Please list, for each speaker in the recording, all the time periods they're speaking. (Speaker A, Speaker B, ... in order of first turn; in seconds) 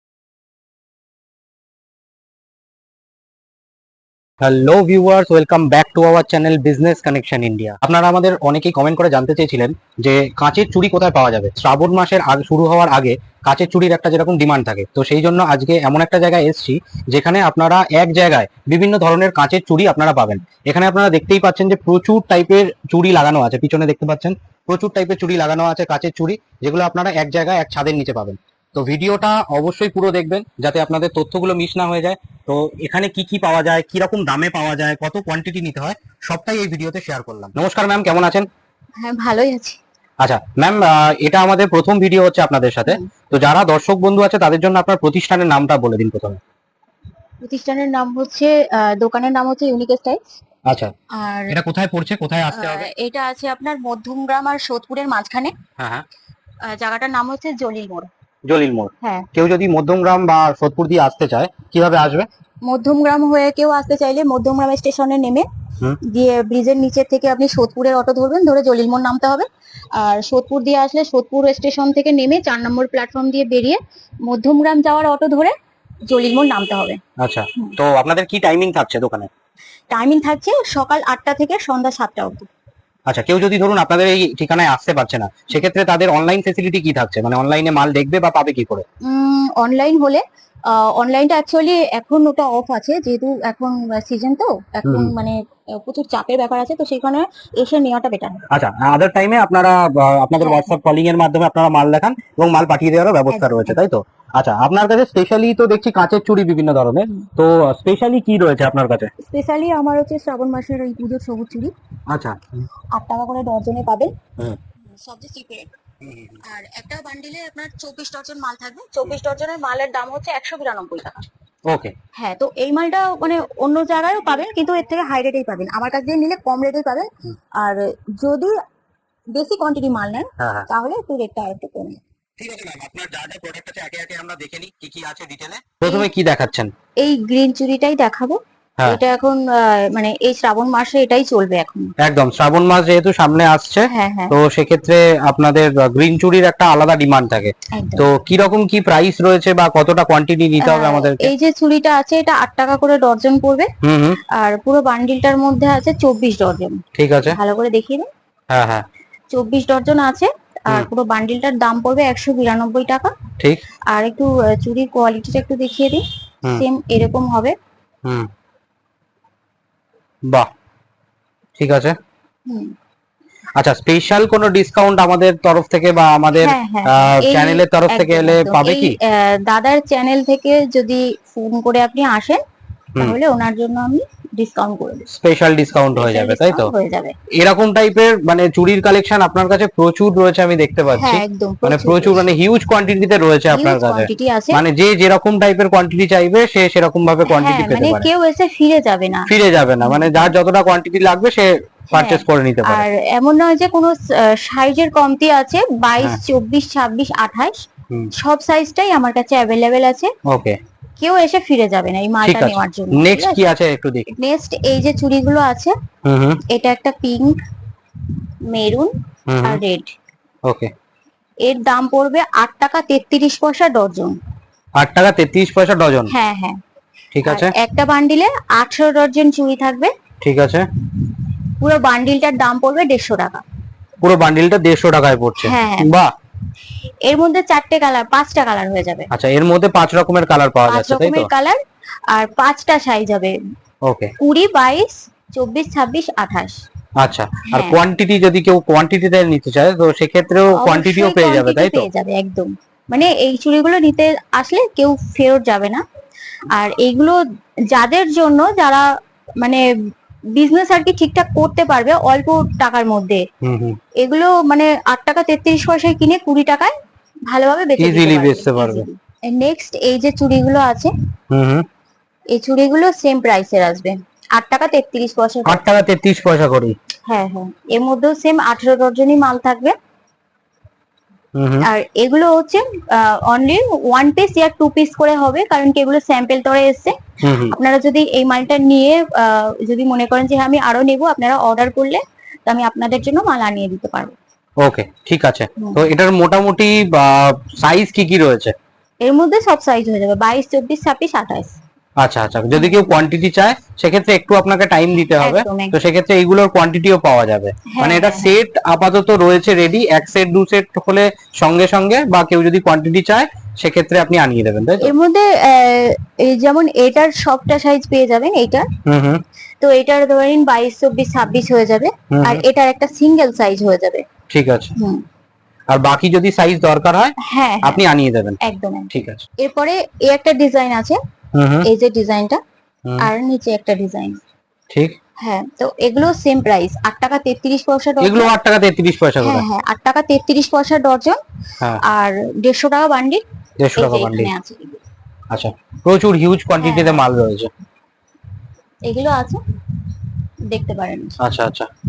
Speaker A: 4.4-38.5, 40.2-46.4, 50.7-50.9, 51.5-52.9, 55.8-56.0, 58.5-62.3, 77.2-79.3, 83.1-88.8, 94.9-95.1, 98.5-109.1, 112.1-112.4, 116.0-116.4, 121.7-121.9, 130.4-130.7, 132.4-136.7, 142.0-151.3, 153.8-154.2, 157.0-157.4, 158.5-158.8, 171.6-171.9, 173.6-179.0, 185.1-186.7, 187.4-198.1, 199.3-202.9, 210.3-210.6, 212.2-214.1, 216.1-216.4, 219.3-219.6, 220.5-220.7, 224.8-226.1, 227.1-227.5, 230.2-230.7, 234.0-236.1, 239.1-241.3, 243.9-244.1, 247.0-251.9, 263.4-263.8, 267.8-268.9, 271.3-271.7, 275.5-276.8, 281.4-281.7, 287.2-287.6, 294.6-298.5, 302.0-314.9, 318.9-319.2, 322.1-322.4, 324.3-324.7, 325.7-328.4, 328.9-329.2, 331.4-331.7, 332.9-333.1, 338.0-339.5, 343.6-344.3, 345.3-347.5, 351.2-351.7
Speaker B: 39.0-39.8, 47.4-50.2, 51.2-51.5, 52.5-55.5, 56.6-58.1, 62.6-65.5, 66.0-75.5, 76.1-77.0, 79.9-82.5, 89.0-98.4, 100.4-100.7, 103.3-103.8, 109.2-111.7, 112.9-114.2, 114.8-115.7, 116.4-121.3, 122.2-128.6, 129.3-132.0, 137.0-141.9, 143.9-144.3, 147.7-148.1, 150.6-153.7, 154.3-158.1, 159.3-163.1, 163.9-167.6, 172.5-172.7, 176.4-182.4, 183.0-185.1, 185.9-187.2, 191.0-192.3, 193.5-194.6, 197.3-199.3, 199.8-200.3, 201.9-207.6, 208.2-210.1, 211.0-213.4, 214.2-215.8, 216.5-217.4, 218.5-218.9, 219.4-219.9, 221.4-224.2, 226.1-226.6, 227.2-229.9, 231.1-233.4, 235.4-235.9, 237.1-239.1, 240.7-241.6, 242.1-243.4, 244.2-246.6, 247.5-247.8, 250.5-255.8, 256.5-257.2, 257.7-258.9, 260.4-263.2, 264.0-266.7, 267.3-270.9, 272.3-275.8, 277.1-279.8, 281.6-294.1, 295.6-295.9, 299.0-301.6, 302.5-302.9, 305.2-305.8, 307.7-308.4, 314.8-318.7, 319.6-324.1, 324.8-325.0, 327.2-327.8, 328.4-331.0, 331.6-332.4, 333.0-334.2, 335.2-338.3, 339.2-341.2, 341.9-343.2, 343.8-344.8, 346.6-347.0, 348.9-349.4, 350.5-351.2